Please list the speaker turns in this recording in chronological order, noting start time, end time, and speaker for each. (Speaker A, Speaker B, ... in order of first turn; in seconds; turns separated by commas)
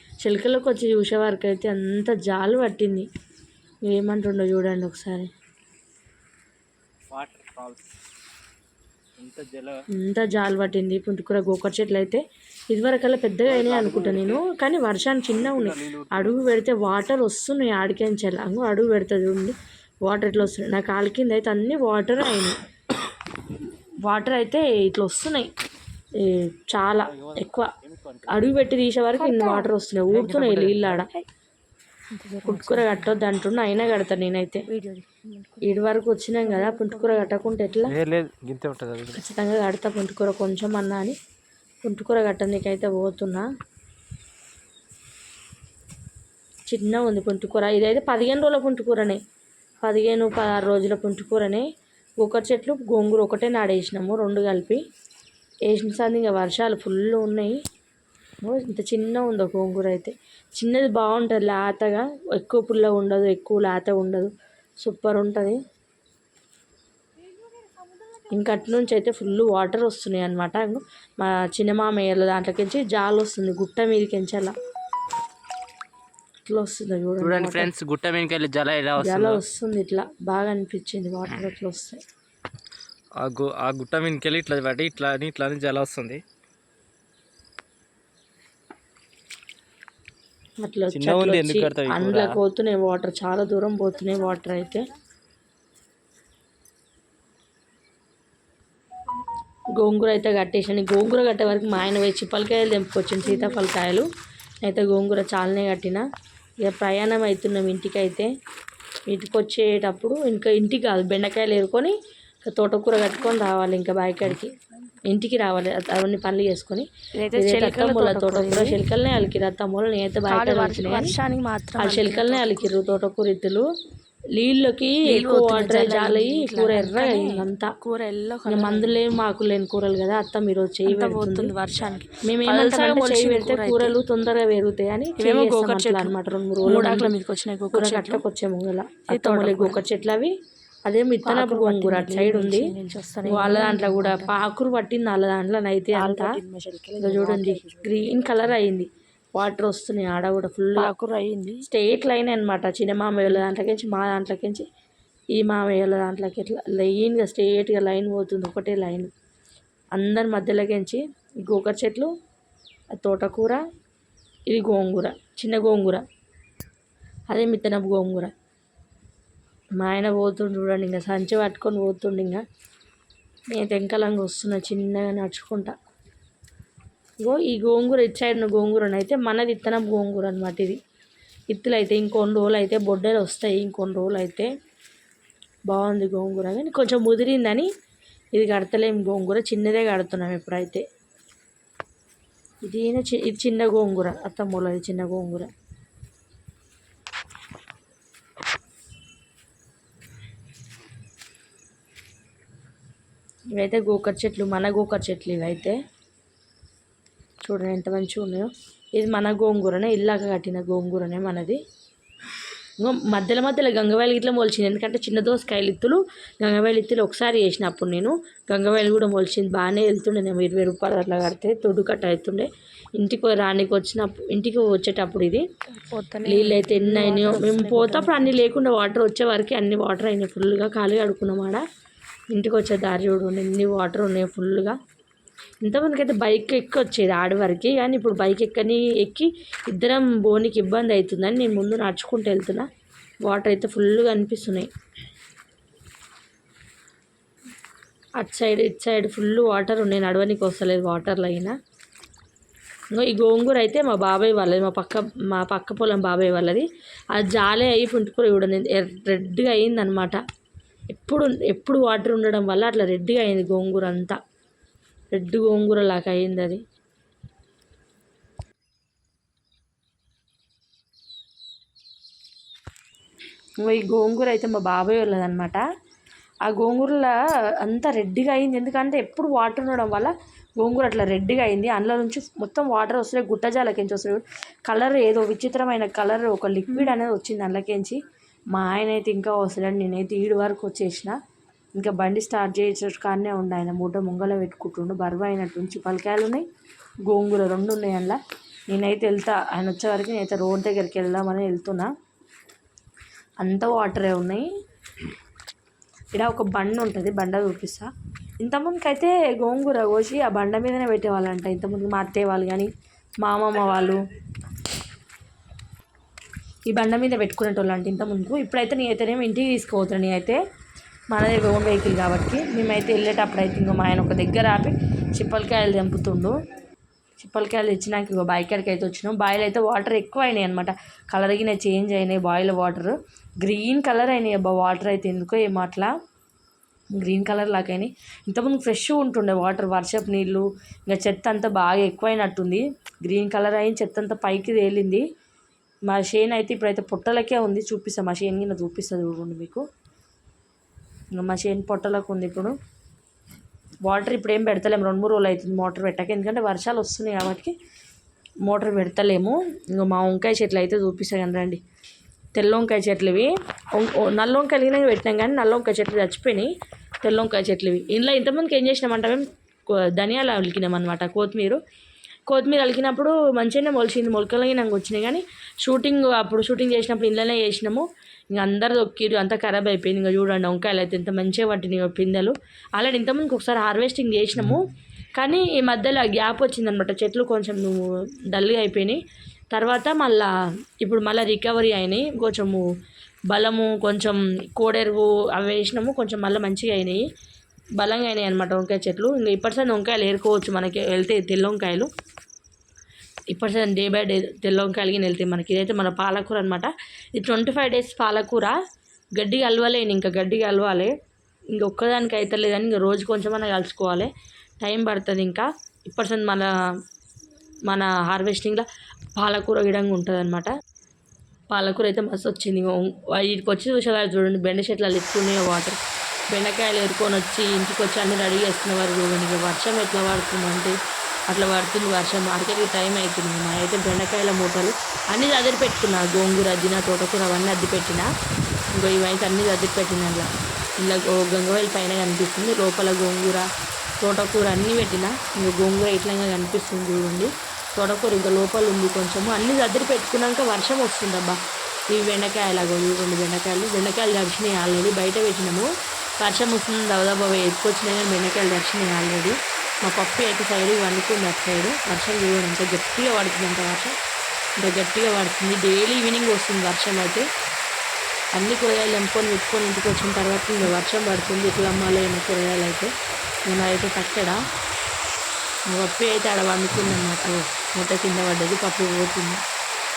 Speaker A: 0.2-3.1, Speaker A: 3.9-5.3, Speaker B: 7.1-7.8, Speaker B: 9.2-9.8, Speaker A: 9.9-22.6, Speaker B: 13.4-14.4, Speaker B: 15.4-16.4, Speaker A: 24.0-25.5, Speaker A: 26.2-27.7, Speaker B: 27.0-28.6, Speaker A: 28.3-31.1, Speaker C: 29.2-29.7, Speaker B: 30.2-31.0, Speaker C: 30.2-30.6, Speaker C: 32.1-33.1, Speaker A: 32.5-34.7, Speaker C: 34.7-35.8, Speaker A: 35.6-38.0, Speaker C: 36.4-37.7, Speaker B: 37.9-39.2, Speaker A: 39.1-41.2, Speaker A: 41.8-43.5, Speaker A: 46.7-49.2, Speaker A: 49.8-51.7, Speaker A: 52.2-54.8, Speaker A: 55.7-57.6, Speaker A: 58.4-65.6, Speaker A: 68.3-74.5, Speaker A: 76.5-77.7, Speaker B: 77.2-79.4, Speaker A: 79.0-82.0, Speaker B: 83.2-86.2, Speaker A: 90.6-94.9, Speaker B: 90.9-92.4, Speaker A: 99.8-104.1, Speaker C: 103.2-103.6, Speaker A: 104.6-106.0, Speaker A: 106.6-108.3, Speaker A: 109.1-114.5, Speaker A: 115.1-121.2, Speaker C: 117.2-118.8, Speaker C: 120.3-122.8, Speaker A: 121.8-123.7, Speaker A: 124.3-127.7, Speaker C: 125.1-129.0, Speaker A: 128.5-131.5, Speaker C: 130.9-134.0, Speaker A: 132.2-137.1, Speaker C: 135.2-138.2, Speaker A: 137.7-140.3, Speaker C: 139.1-139.8, Speaker A: 140.9-142.7, Speaker C: 141.2-144.4, Speaker A: 143.3-146.4, Speaker C: 145.9-148.5, Speaker A: 147.0-150.9, Speaker C: 150.8-151.7, Speaker A: 151.6-154.7, Speaker A: 155.3-159.1, Speaker A: 159.9-162.1, Speaker A: 162.9-163.6, Speaker A: 164.5-166.0, Speaker A: 167.3-168.3, Speaker A: 169.8-172.4, Speaker A: 173.5-175.8, Speaker A: 177.2-180.8, Speaker A: 181.5-184.5, Speaker A: 185.7-187.7, Speaker A: 188.3-190.8, Speaker A: 192.7-195.5, Speaker A: 203.6-205.8, Speaker A: 207.4-211.6, Speaker A: 212.8-225.4, Speaker C: 225.7-228.4, Speaker A: 226.2-231.6, Speaker A: 232.3-234.8, Speaker A: 235.6-242.7, Speaker A: 243.2-244.7, Speaker A: 248.2-251.6, Speaker A: 252.9-260.2, Speaker A: 260.9-264.2, Speaker A: 265.1-266.6, Speaker A: 273.6-275.6, Speaker A: 276.4-288.0, Speaker A: 288.5-291.2, Speaker A: 291.8-296.5, Speaker A: 297.1-301.9, Speaker A: 303.4-304.5, Speaker A: 306.1-307.9, Speaker A: 308.4-314.0, Speaker A: 316.7-320.4, Speaker A: 321.1-326.3, Speaker A: 327.2-335.9, Speaker A: 337.0-345.0, Speaker A: 345.9-349.6, Speaker A: 351.1-352.6, Speaker A: 353.8-357.5, Speaker A: 358.4-361.6, Speaker A: 362.4-366.5, Speaker A: 367.0-371.6, Speaker A: 372.3-384.6, Speaker A: 385.2-389.0, Speaker A: 389.5-392.6, Speaker A: 393.3-397.0, Speaker A: 397.8-401.9, Speaker A: 403.3-408.6, Speaker A: 409.2-410.9, Speaker A: 411.5-414.1, Speaker A: 414.6-416.5, Speaker A: 417.7-418.7, Speaker A: 419.2-420.5, Speaker A: 421.5-430.8, Speaker A: 431.3-438.1, Speaker A: 438.7-440.3, Speaker A: 440.8-443.5, Speaker A: 444.0-451.4, Speaker A: 451.9-455.7, Speaker A: 456.2-463.9, Speaker A: 464.6-467.3, Speaker A: 468.3-472.9, Speaker A: 473.5-474.4, Speaker A: 475.7-479.4